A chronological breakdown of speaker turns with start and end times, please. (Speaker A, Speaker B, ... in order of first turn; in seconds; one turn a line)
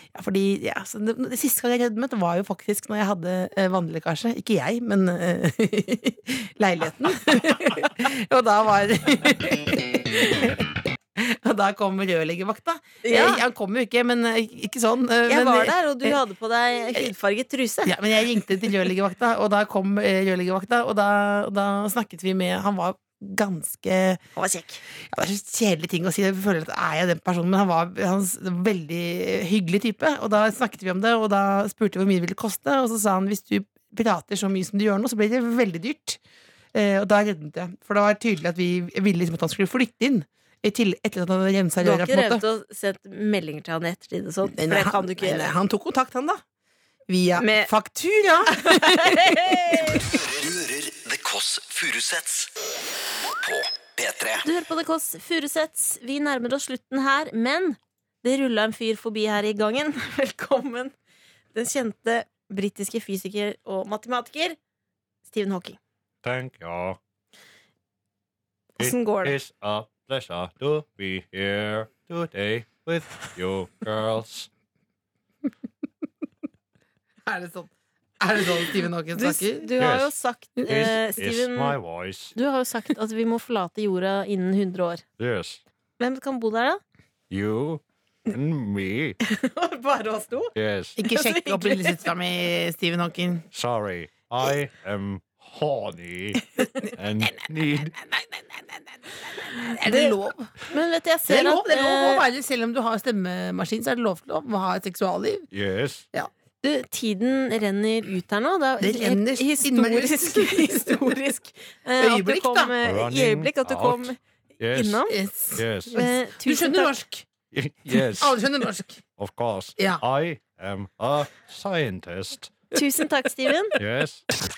Speaker A: 0.1-10.6
Speaker A: 11.2-16.2
Speaker B: 13.0-13.4
Speaker B: 15.3-17.9
Speaker A: 17.8-24.2
Speaker B: 24.3-24.8
Speaker A: 25.1-36.2
Speaker A: 36.7-42.4
Speaker B: 41.8-45.5
Speaker A: 44.5-46.4
Speaker A: 47.1-49.1
Speaker B: 47.4-47.7
Speaker B: 48.5-50.0
Speaker C: 50.0-52.5
Speaker C: 53.4-54.5
Speaker B: 54.4-60.9
Speaker B: 61.5-64.6
Speaker B: 65.3-65.8
Speaker D: 66.2-67.0
Speaker B: 68.8-69.4
Speaker D: 68.8-74.5
Speaker A: 77.2-79.7
Speaker B: 79.1-81.8
Speaker D: 79.8-82.3
Speaker B: 82.3-85.0
Speaker D: 85.2-85.6
Speaker B: 86.0-86.8
Speaker D: 87.3-89.2
Speaker B: 89.2-90.5
Speaker D: 90.5-91.0
Speaker A: 91.0-93.5
Speaker B: 91.0-92.0
Speaker D: 93.5-98.0
Speaker A: 96.6-100.5
Speaker B: 99.8-100.1
Speaker B: 100.7-102.2
Speaker A: 101.3-105.5
Speaker D: 105.5-106.1
Speaker B: 106.6-114.2
Speaker A: 108.8-111.1
Speaker A: 112.0-112.7
Speaker D: 112.8-116.0
Speaker B: 114.7-115.2
Speaker A: 115.1-117.2
Speaker B: 115.9-116.9
Speaker D: 117.5-118.4
Speaker A: 118.1-119.0
Speaker D: 119.2-122.5
Speaker A: 119.8-120.0
Speaker B: 122.7-123.8
Speaker D: 123.8-124.2